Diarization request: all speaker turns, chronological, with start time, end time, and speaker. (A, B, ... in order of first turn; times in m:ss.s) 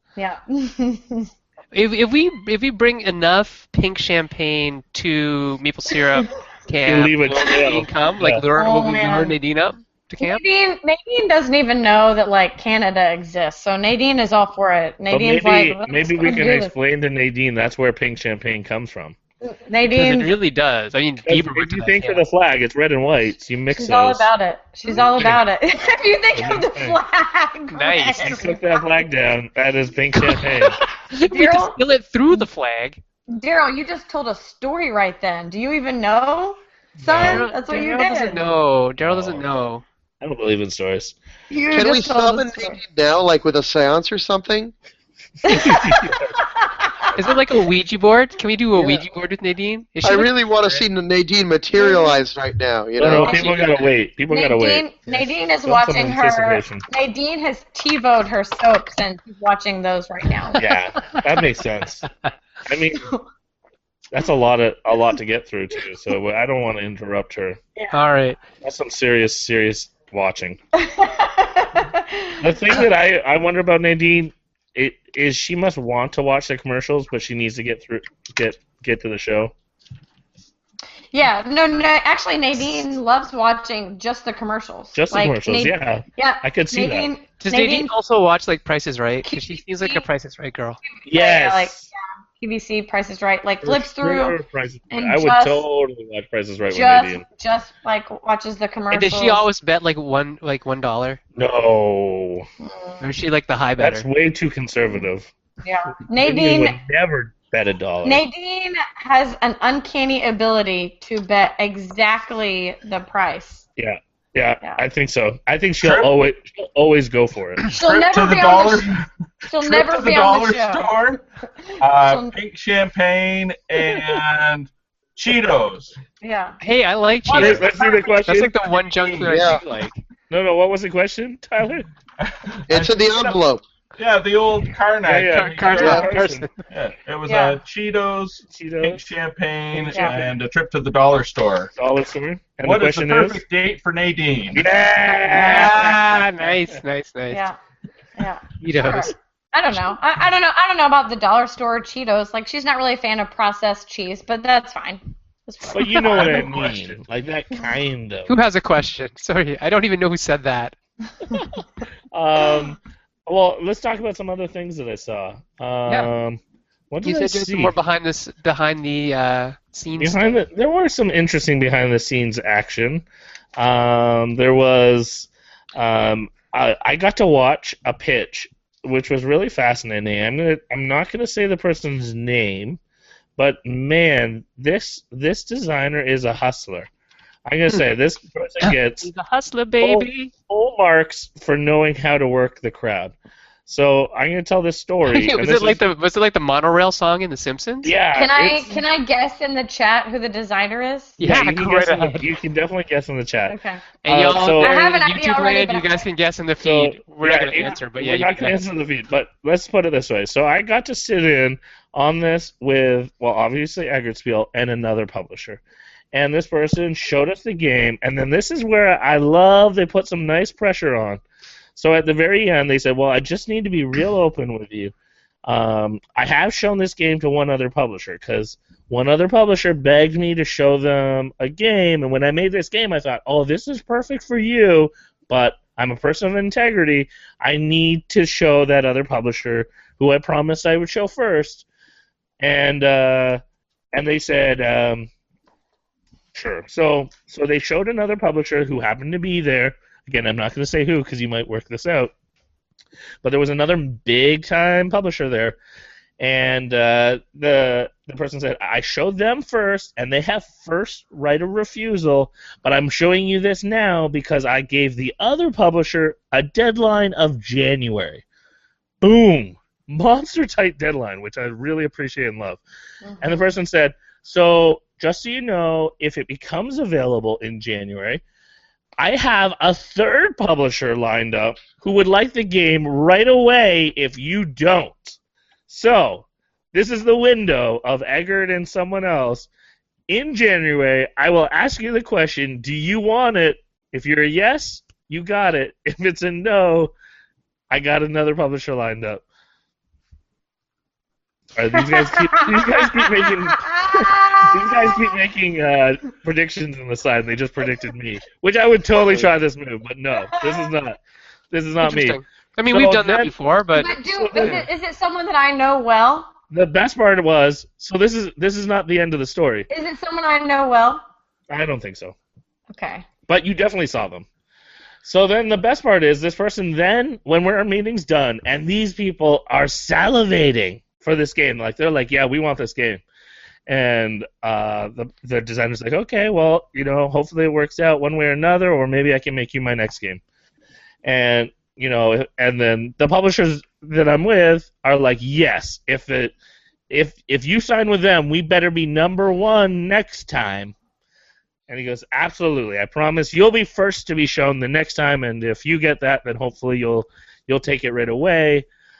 0:00.2-0:01.3 A
0:01.7-0:10.4 B
0:06.8-0:08.4 C
0:08.6-0:09.3 A
0:10.2-0:16.7 A
0:15.1-0:19.2 C
0:19.4-0:20.3 A
0:19.9-0:22.2 B
0:21.2-0:24.3 C
0:23.7-0:28.9 A
0:24.9-0:25.4 C
0:26.3-0:27.0 C
0:27.7-0:28.5 B
0:28.2-0:30.8 C
0:30.2-0:33.0 B
0:31.3-0:31.8 A
0:33.3-0:38.4 A
0:37.0-0:37.4 C
0:37.1-0:39.8 B
0:39.0-0:39.4 C
0:40.2-0:41.1 C
0:41.5-0:42.8 A
0:41.7-0:44.7 D
0:45.4-0:46.4 C
0:45.4-0:47.1 A
0:47.1-0:50.8 B
0:48.8-0:49.0 D
0:50.0-0:53.5 D
0:51.8-0:52.2 A
0:53.0-0:56.8 C
0:53.1-1:00.6 A
1:00.6-1:02.1 C
1:02.6-1:03.1 C
1:04.1-1:07.6 C
1:07.9-1:08.4 B
1:08.6-1:10.6 C
1:10.8-1:12.8 A
1:12.4-1:19.5 C
1:21.1-1:27.9 A
1:24.9-1:27.1 C
1:27.4-1:30.8 B
1:29.2-1:30.0 A
1:31.0-1:34.4 A
1:31.0-1:31.9 C
1:33.6-1:37.2 C
1:34.9-1:35.6 A
1:36.7-1:39.4 A
1:38.9-1:41.2 B
1:41.4-1:42.4 C
1:42.6-1:43.0 A
1:43.0-1:44.0 B
1:43.8-1:45.3 C
1:45.6-1:46.8 A
1:46.2-1:48.2 C
1:48.0-1:53.6 A
1:53.8-1:57.6 C
1:55.8-1:56.1 E
1:57.6-2:01.2 E
1:57.7-1:58.9 A
1:59.5-2:00.9 A
2:01.6-2:02.3 A
2:01.8-2:05.9 E
2:03.9-2:04.2 A
2:06.2-2:06.6 A
2:06.6-2:07.7 B
2:07.3-2:08.6 C
2:07.3-2:07.6 E
2:07.4-2:08.2 A
2:08.2-2:10.0 B
2:09.0-2:09.6 E
2:09.2-2:09.6 D
2:10.3-2:11.9 C
2:12.2-2:13.3 E
2:12.7-2:13.6 D
2:14.0-2:16.2 E
2:15.0-2:16.5 C
2:15.3-2:16.6 B
2:15.8-2:16.0 D
2:16.7-2:21.7 E
2:17.2-2:17.6 A
2:18.5-2:19.0 C
2:19.7-2:20.2 C
2:21.8-2:23.4 C
2:22.6-2:24.6 E
2:24.5-2:26.2 C
2:25.0-2:27.4 B
2:27.3-2:27.6 A
2:28.2-2:36.4 A
2:28.6-2:29.1 B
2:35.6-2:38.3 C
2:36.1-2:36.9 E
2:38.3-2:40.7 B
2:42.1-2:47.7 C
2:47.0-2:50.4 B
2:50.0-2:53.0 C
2:53.6-3:02.8 C
3:03.4-3:06.9 C
3:07.4-3:09.1 C
3:08.6-3:10.3 B
3:09.8-3:13.1 C
3:13.6-3:15.8 C
3:15.1-3:17.9 B
3:17.8-3:18.7 C
3:18.1-3:21.2 A
3:21.2-3:22.2 B
3:21.2-3:24.8 C
3:23.5-3:26.0 A
3:24.0-3:28.6 B
3:26.6-3:41.2 C
3:41.7-3:44.9 C
3:45.4-4:01.6 C
4:02.4-4:03.4 C
4:03.9-4:05.1 C
4:06.3-4:12.1 C
4:13.2-4:15.6 C
4:16.2-4:28.2 C
4:29.0-4:32.6 C
4:33.0-4:33.5 A
4:33.2-4:38.2 C
4:39.0-4:45.2 C
4:45.7-4:49.5 C
4:50.1-4:56.9 C
4:57.7-4:59.2 C
5:01.5-5:11.0 C
5:01.9-5:05.1 A
5:10.3-5:10.7 A
5:11.5-5:13.3 C
5:11.8-5:14.7 B
5:13.7-5:16.3 A
5:14.0-5:14.6 C
5:16.5-5:19.7 C
5:19.7-5:21.0 A
5:21.5-5:22.1 C
5:22.7-5:23.0 A
5:23.3-5:24.2 C
5:25.0-5:33.0 C
5:33.7-5:40.2 C
5:41.0-5:46.3 C
5:46.9-5:50.7 C
5:51.7-5:58.6 C